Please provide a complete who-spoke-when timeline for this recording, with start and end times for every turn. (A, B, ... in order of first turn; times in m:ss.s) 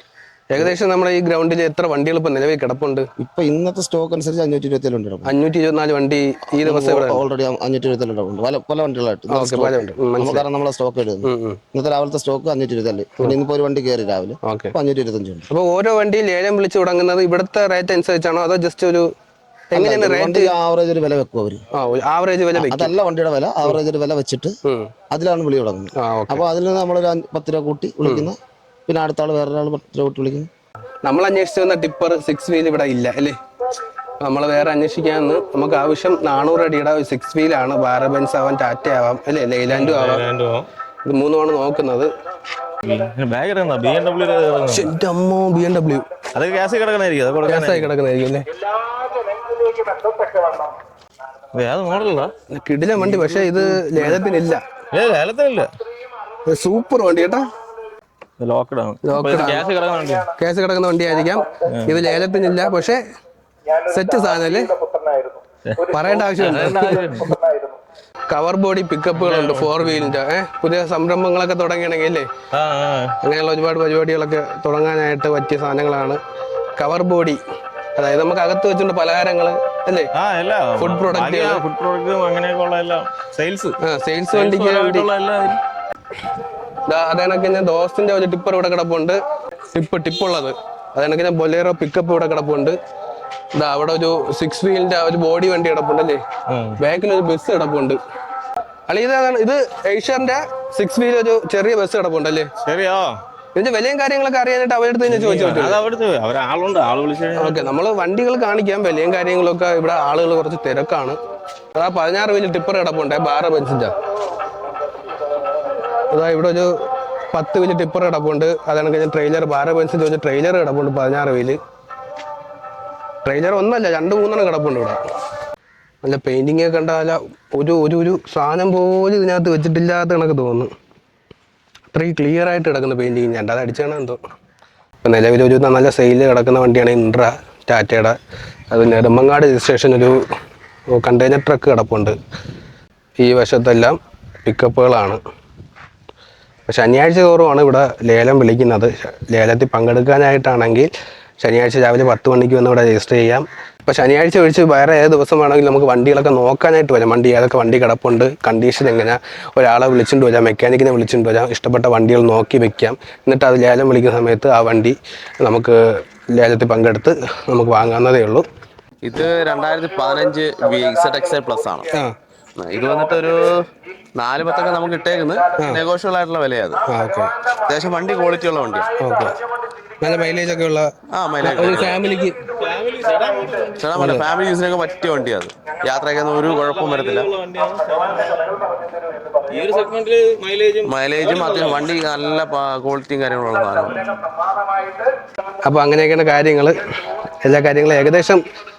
0:00.5-0:03.1 A
0:03.2-0:05.3 B
0:05.2-0:07.2 A
0:06.6-0:15.5 B
0:09.3-0:10.4 A
0:11.2-0:11.6 A
0:14.4-0:14.7 A
0:15.5-0:19.1 A
0:19.7-0:20.5 A
0:19.7-0:21.6 B
0:21.7-0:22.9 A
0:22.6-0:24.6 B
0:24.6-0:24.9 A
0:25.1-0:30.5 B
0:26.0-0:26.4 A
0:28.0-0:28.3 A
0:31.0-0:33.4 A
0:34.2-0:40.2 A
0:39.7-0:40.7 C
0:41.1-0:42.1 A
0:42.8-0:44.9 C
0:44.7-0:46.0 A
0:46.3-0:47.9 C
0:47.4-0:48.4 A
0:51.6-0:52.3 C
0:52.5-0:54.6 A
0:53.2-0:54.2 C
0:54.9-0:55.7 C
0:56.5-0:57.4 A
0:58.4-1:00.3 C
0:59.0-0:59.6 A
1:00.4-1:03.0 A
1:01.7-1:02.0 C
1:03.9-1:04.8 A
1:05.7-1:07.4 C
1:05.9-1:07.3 A
1:08.3-1:12.3 A
1:09.2-1:10.2 C
1:12.5-1:13.2 C
1:13.2-1:16.2 A
1:16.8-1:17.4 A
1:18.0-1:20.1 A
1:20.1-1:23.8 C
1:20.8-1:21.6 A
1:23.8-1:25.1 A
1:24.3-1:25.6 C
1:26.9-1:29.2 A
1:29.7-1:32.8 A
1:33.6-1:36.2 A
1:36.5-1:36.8 C
1:36.8-1:38.0 A
1:38.9-1:42.5 A
1:42.6-1:43.2 C
1:43.6-1:45.8 A
1:45.1-1:47.7 C
1:47.4-1:51.2 A
1:51.8-1:53.9 A
1:56.1-1:56.7 A
1:57.3-2:01.6 A
2:03.2-2:05.0 A
2:06.0-2:10.7 A
2:11.9-2:14.2 A
2:15.0-2:18.2 A
2:18.7-2:20.2 A
2:20.9-2:22.2 A
2:23.2-2:25.2 A
2:26.7-2:45.8 A
2:46.4-2:48.4 A
2:49.0-2:51.9 D
2:52.6-2:53.6 D
2:54.2-2:56.8 D
2:56.9-2:57.3 A
2:57.6-2:58.9 D
2:59.0-2:59.4 A
3:00.0-3:00.9 A
3:01.1-3:02.0 D
3:01.4-3:02.4 A
3:02.6-3:03.9 C
3:03.7-3:07.3 D
3:04.0-3:04.3 A
3:06.4-3:08.6 C
3:09.5-3:11.9 C
3:10.8-3:14.1 D
3:15.6-3:16.8 A
3:17.4-3:18.4 A